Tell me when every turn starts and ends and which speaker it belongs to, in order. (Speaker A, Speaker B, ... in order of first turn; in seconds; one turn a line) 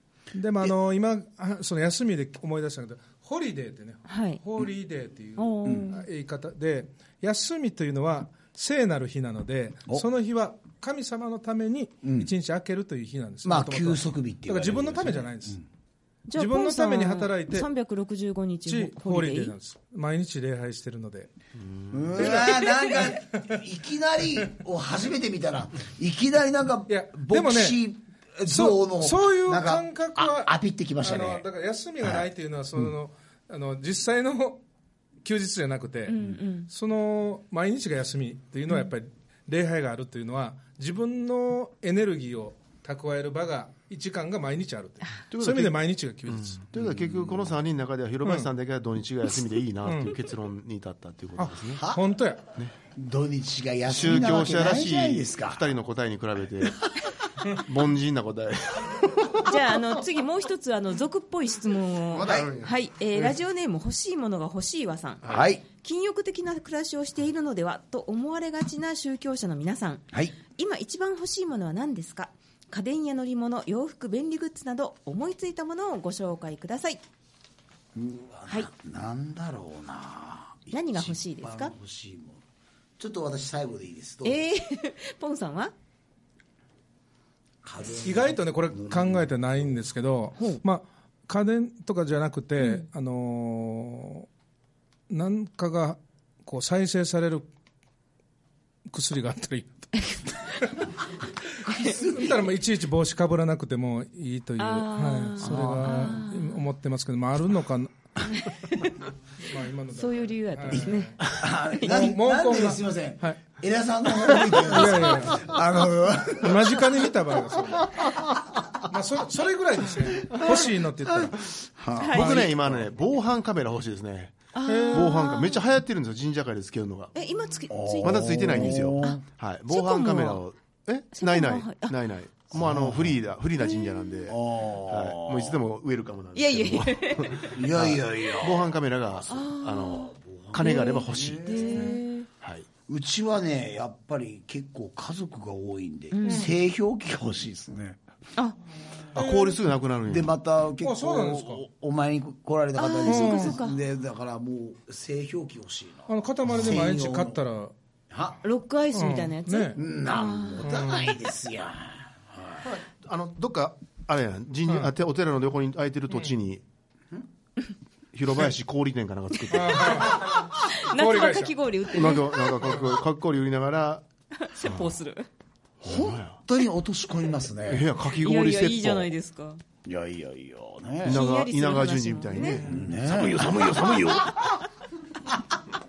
Speaker A: 0.3-15.6
Speaker B: 4.0-4.4
Speaker B: 5.4-6.0
Speaker C: 5.6-6.0
Speaker C: 12.0-12.3
Speaker C: 13.4-15.6
Speaker B: 16.3-19.5
Speaker A: 16.3-17.7
Speaker A: 18.7-21.3
Speaker D: 21.6-22.5
Speaker C: 21.9-31.4
Speaker A: 22.1-23.6
Speaker A: 26.9-27.8
Speaker A: 28.5-34.6
Speaker C: 32.0-32.9
Speaker A: 35.2-36.1
Speaker B: 36.0-36.7
Speaker A: 36.7-46.6
Speaker D: 45.3-51.8
Speaker C: 46.7-47.6
Speaker A: 49.8-50.2
Speaker A: 51.4-52.4
Speaker C: 51.7-52.1
Speaker C: 52.9-55.7
Speaker D: 53.9-59.8
Speaker B: 59.4-77.0
Speaker C: 62.1-62.6
Speaker D: 62.1-62.7
Speaker C: 65.2-65.6
Speaker C: 77.9-82.4
Speaker B: 80.7-81.7
Speaker C: 83.0-84.4
Speaker B: 84.2-85.7
Speaker C: 87.6-89.8
Speaker A: 87.9-94.3
Speaker B: 90.4-90.6
Speaker B: 92.6-92.9
Speaker A: 95.1-97.5
Speaker A: 98.9-100.8
Speaker B: 99.9-100.8
Speaker B: 101.5-102.2
Speaker C: 101.6-102.4
Speaker A: 101.9-108.5
Speaker B: 104.6-106.6
Speaker C: 105.4-106.2
Speaker B: 108.2-109.0
Speaker A: 109.4-111.2
Speaker B: 109.9-112.1
Speaker C: 111.3-117.1
Speaker A: 111.8-113.4
Speaker A: 114.1-115.5
Speaker A: 116.4-118.0
Speaker A: 118.9-121.4
Speaker C: 120.0-122.9
Speaker B: 122.0-122.4
Speaker D: 122.1-127.1
Speaker B: 124.5-125.6
Speaker A: 124.7-125.2
Speaker B: 127.1-130.4
Speaker C: 127.7-129.2
Speaker D: 128.0-141.9
Speaker B: 131.1-131.9
Speaker C: 132.5-133.2
Speaker B: 133.6-134.3
Speaker C: 134.3-135.6
Speaker B: 136.3-137.6
Speaker C: 137.5-139.2
Speaker B: 139.3-142.3
Speaker C: 139.8-142.0
Speaker D: 142.4-142.7
Speaker C: 142.9-148.0
Speaker B: 146.1-146.5
Speaker A: 146.3-146.5
Speaker D: 149.1-150.3
Speaker B: 149.1-149.5
Speaker C: 150.1-157.4
Speaker A: 150.8-151.6
Speaker B: 152.8-153.8
Speaker A: 153.1-153.6
Speaker A: 156.1-157.7
Speaker C: 158.1-158.4
Speaker B: 158.4-160.9
Speaker A: 158.9-159.8
Speaker C: 159.7-162.7
Speaker A: 160.6-161.2
Speaker D: 162.6-166.6
Speaker D: 168.1-170.3
Speaker A: 169.5-171.5
Speaker B: 169.7-172.9
Speaker D: 171.9-174.0
Speaker B: 174.3-175.3
Speaker D: 174.6-174.9
Speaker D: 175.8-176.4
Speaker C: 175.8-177.9
Speaker D: 177.6-179.1
Speaker B: 178.1-179.6
Speaker C: 179.8-181.2
Speaker D: 181.0-184.5
Speaker B: 181.1-182.6
Speaker A: 182.4-182.9
Speaker C: 182.6-184.5